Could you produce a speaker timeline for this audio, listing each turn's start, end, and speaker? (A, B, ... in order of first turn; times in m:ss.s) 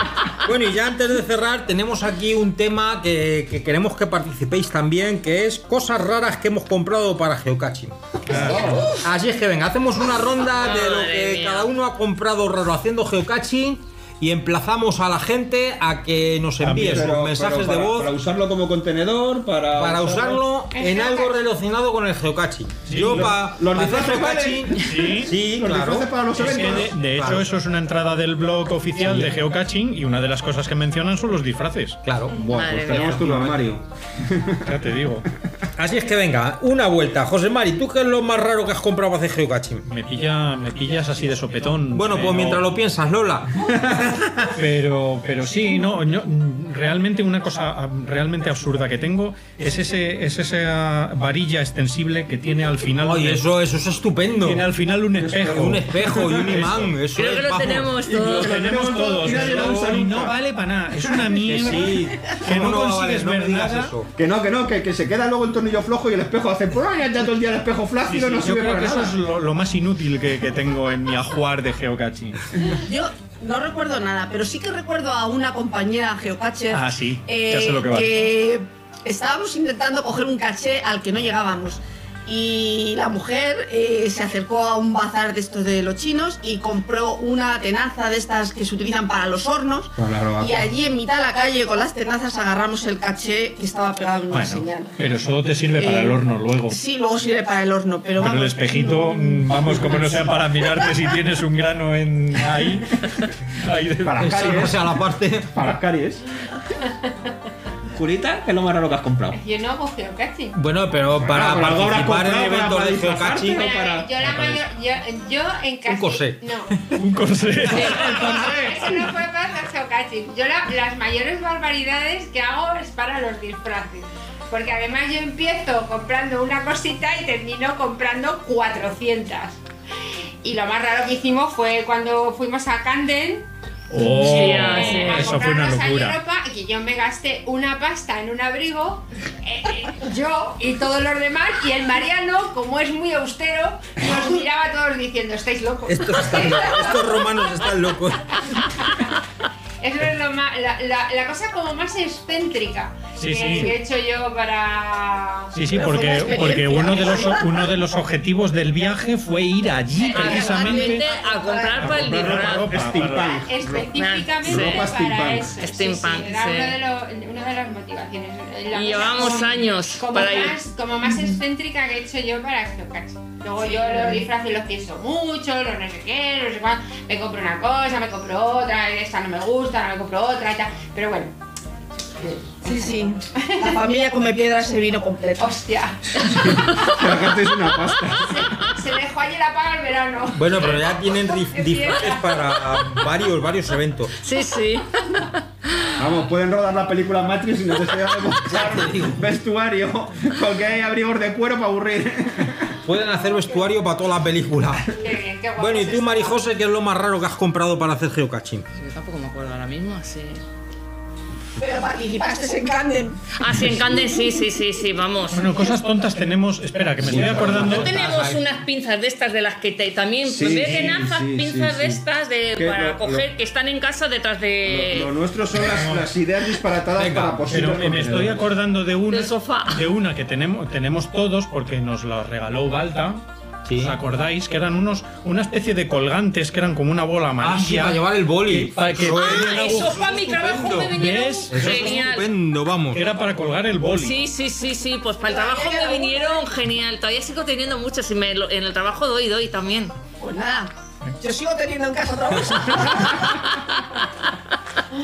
0:00.4-0:18.1 A
0:08.3-0:08.8 B
0:08.3-0:09.0 C
0:10.6-0:11.7 D
0:16.6-0:17.1 B
0:16.7-0:20.4 C
0:19.8-0:27.5 A
0:20.7-0:21.4 E
0:22.9-0:23.4 B
0:22.9-0:27.0 C
0:24.8-0:25.3 B
0:26.4-0:32.0 B
0:32.0-0:33.6 A
0:32.3-0:34.7 C
0:32.5-0:33.3 D
0:34.6-0:35.3 B
0:35.8-0:39.8 A
0:39.8-0:42.6 B
0:41.9-0:44.5 A
0:44.5-0:53.4 B
0:53.0-0:54.6 A
0:54.4-0:56.9 B
0:55.2-0:56.7 C
0:55.5-0:58.0 A
0:57.1-0:58.6 D
0:58.0-1:00.3 C
0:58.2-1:03.9 B
0:59.2-0:59.9 A
1:01.4-1:04.1 A
1:04.2-1:09.2 C
1:08.0-1:12.4 B
1:12.6-1:34.9 F
1:16.7-1:18.1 B
1:30.0-1:30.7 C
1:34.3-1:36.8 B
1:35.8-1:39.2 F
1:38.2-1:44.7 B
1:44.0-1:44.9 C
1:44.2-1:45.6 A
1:45.5-1:46.2 C
1:46.8-1:47.1 E
1:47.9-1:49.4 C
1:49.3-1:50.6 E
1:50.5-1:53.6 A
1:51.2-1:54.1 C
1:53.5-1:56.8 E
1:54.2-1:54.6 B
1:55.9-1:56.4 A
1:56.9-1:59.1 B
1:57.7-2:09.6 E
2:10.4-2:13.5 E
2:13.9-2:16.2 B
2:14.1-2:15.5 D
2:14.1-2:27.2 E
2:25.8-2:28.6 A
2:29.8-2:35.5 E
2:33.2-2:33.7 B
2:35.5-2:41.0 B
2:35.7-2:37.7 F
2:40.0-2:40.4 E
2:40.0-2:42.0 F
2:40.2-2:42.8 D
2:41.7-2:43.4 B
2:41.9-2:45.6 C
2:43.1-3:01.3 E
2:43.9-2:44.9 D
2:45.6-2:46.8 D
2:48.7-2:50.6 D
2:53.6-2:54.2 F
3:02.1-3:03.8 E
3:02.6-3:05.5 F
3:05.4-3:07.3 E
3:06.2-3:08.4 C
3:08.1-3:12.8 E
3:10.3-3:14.1 A
3:10.6-3:10.8 B
3:14.1-3:15.3 D
3:16.0-3:22.7 C
3:18.5-3:19.2 A
3:22.8-3:24.9 A
3:25.0-3:26.4 E
3:25.6-3:28.7 A
3:28.7-3:30.4 D
3:31.6-3:33.2 F
3:33.4-3:35.5 D
3:35.3-3:37.9 B
3:37.0-3:38.3 C
3:37.0-3:38.4 A
3:37.5-3:45.1 D
3:40.2-3:42.0 C
3:40.6-3:41.0 B
3:42.6-3:43.2 C
3:44.6-3:48.4 C
3:45.6-3:46.0 B
3:46.9-3:47.4 A
3:47.5-3:53.2 B
3:49.1-3:49.8 D
3:53.6-3:54.0 A
3:53.7-3:59.9 B
3:57.4-4:01.0 A
3:59.0-4:02.3 D
4:00.9-4:02.0 B
4:01.5-4:03.1 A
4:02.9-4:04.2 B
4:03.9-4:10.0 D
4:05.2-4:06.5 F
4:10.2-4:13.6 F